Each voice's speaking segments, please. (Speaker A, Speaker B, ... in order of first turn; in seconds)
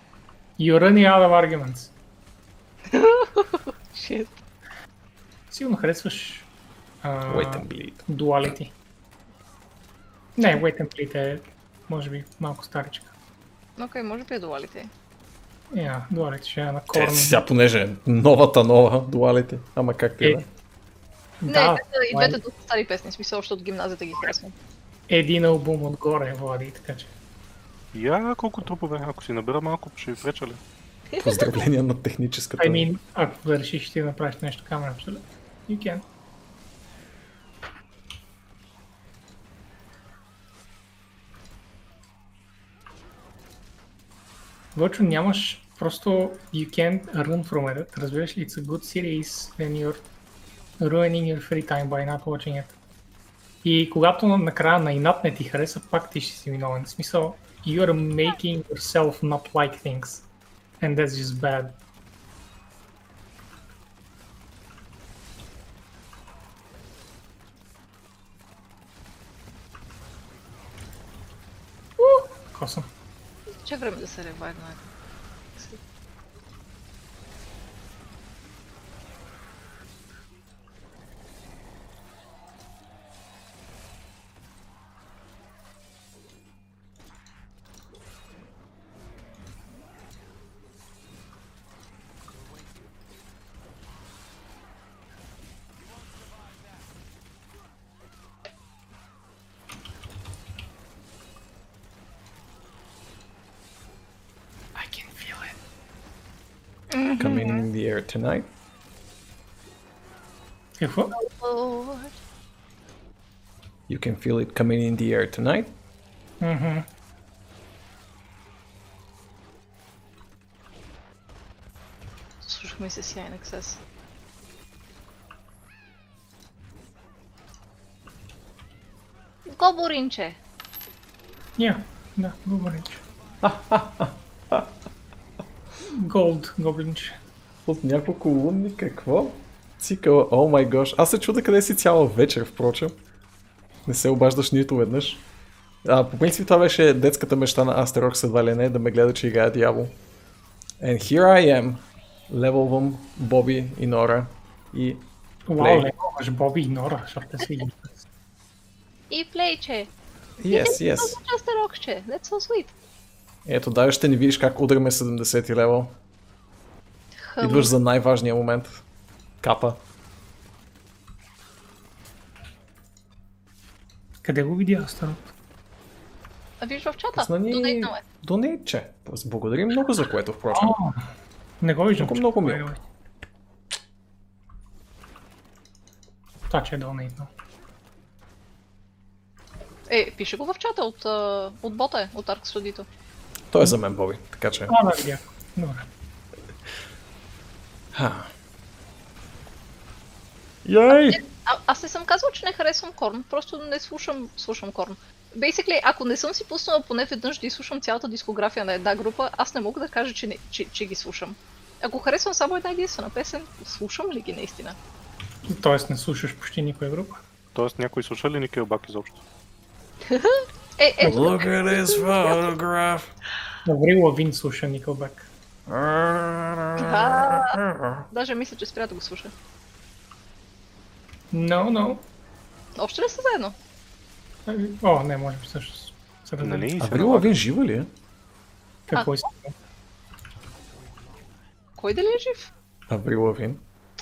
Speaker A: 0.6-1.9, 5.5-6.5, 7.0-8.7, 10.4-13.1, 15.7-17.4, 20.2-20.4, 21.4-22.4, 25.1-27.1, 32.6-36.0, 44.7-50.0, 50.8-52.8, 53.6-60.3, 60.8-61.8, 72.0-72.9, 104.7-105.6, 110.8-111.2, 116.4-116.9, 131.6-133.0, 135.8-137.2, 155.5-158.0, 174.2-175.3, 180.5-182.8, 186.5-187.3, 194.7-195.9, 215.4-217.2, 221.0-221.3, 223.6-225.3, 231.3-232.1, 234.4-236.7, 238.9-239.5
Speaker B: 2.9-4.4, 13.8-14.9, 21.5-24.5, 31.1-31.6, 73.6-74.8, 106.9-107.7, 111.1-112.2, 122.4-123.8, 129.5-130.4, 159.1-159.9, 160.5-162.7, 167.2-167.7, 176.6-178.0, 189.9-192.9, 200.9-214.8, 220.1-222.5, 226.8-229.3, 232.8-233.6, 238.9-239.2, 241.8-242.5
Speaker C: 7.3-8.0, 16.9-20.4, 31.2-32.9, 107.2-108.5, 113.9-115.7, 133.4-134.7, 137.7-142.9, 143.8-145.2, 145.8-150.0, 150.8-155.1, 155.6-155.9, 160.4-161.2, 163.4-165.9, 167.4-168.8, 169.4-169.8, 177.2-180.8, 182.0-182.7, 193.5-194.8, 197.9-198.3, 200.6-201.2, 221.0-223.1, 225.7-228.0, 236.8-237.9, 242.9-243.6
Speaker D: 27.9-30.6, 217.5-219.2, 236.4-237.3